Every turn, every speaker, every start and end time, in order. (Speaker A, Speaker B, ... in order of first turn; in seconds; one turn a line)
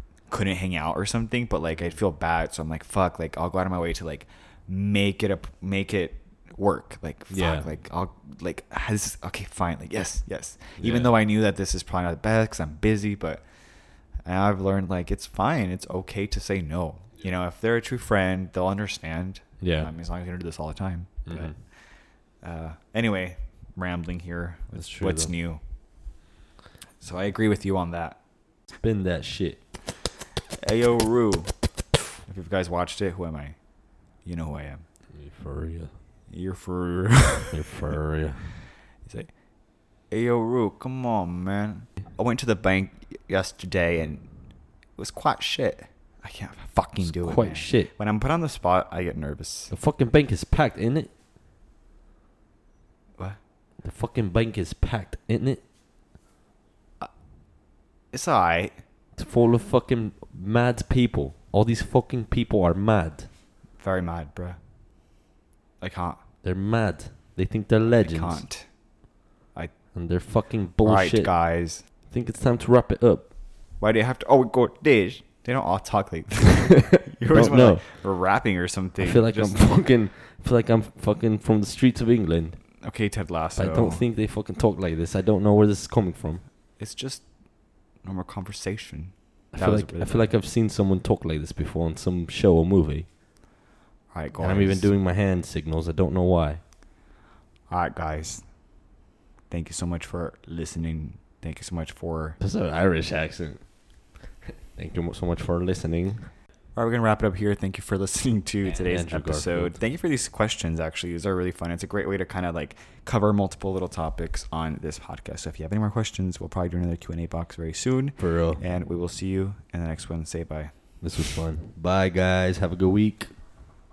Speaker A: 0.3-13.4
Speaker B: 7.3-7.7
Speaker B: 10.8-11.2
Speaker A: 14.2-21.9
Speaker B: 19.6-19.9
Speaker B: 21.2-21.6
Speaker A: 22.4-25.6
Speaker B: 24.8-25.3
Speaker A: 27.0-28.2
Speaker B: 28.8-29.6
Speaker A: 30.6-31.6
Speaker A: 32.2-33.6
Speaker A: 34.2-34.8
Speaker B: 35.1-35.9
Speaker A: 36.3-37.6
Speaker B: 37.5-38.6
Speaker A: 39.0-44.3
Speaker A: 44.9-49.7
Speaker B: 47.0-47.9
Speaker B: 49.7-51.1
Speaker B: 53.8-55.6
Speaker A: 58.1-58.8
Speaker B: 59.1-63.3
Speaker A: 63.8-64.6
Speaker A: 65.8-66.2
Speaker B: 66.4-68.4
Speaker A: 68.0-68.7
Speaker B: 69.9-73.3
Speaker A: 70.8-71.8
Speaker A: 73.8-79.7
Speaker B: 77.2-77.9
Speaker B: 79.0-82.7
Speaker A: 82.8-84.0
Speaker B: 83.5-86.4
Speaker A: 86.8-87.3
Speaker A: 88.0-90.3
Speaker B: 89.5-93.1
Speaker A: 94.1-94.9
Speaker B: 94.4-96.6
Speaker A: 97.7-98.5
Speaker A: 99.5-102.4
Speaker B: 102.4-103.7
Speaker B: 104.4-106.3
Speaker A: 106.7-121.0
Speaker B: 108.6-109.8
Speaker B: 118.2-118.6
Speaker B: 121.0-123.4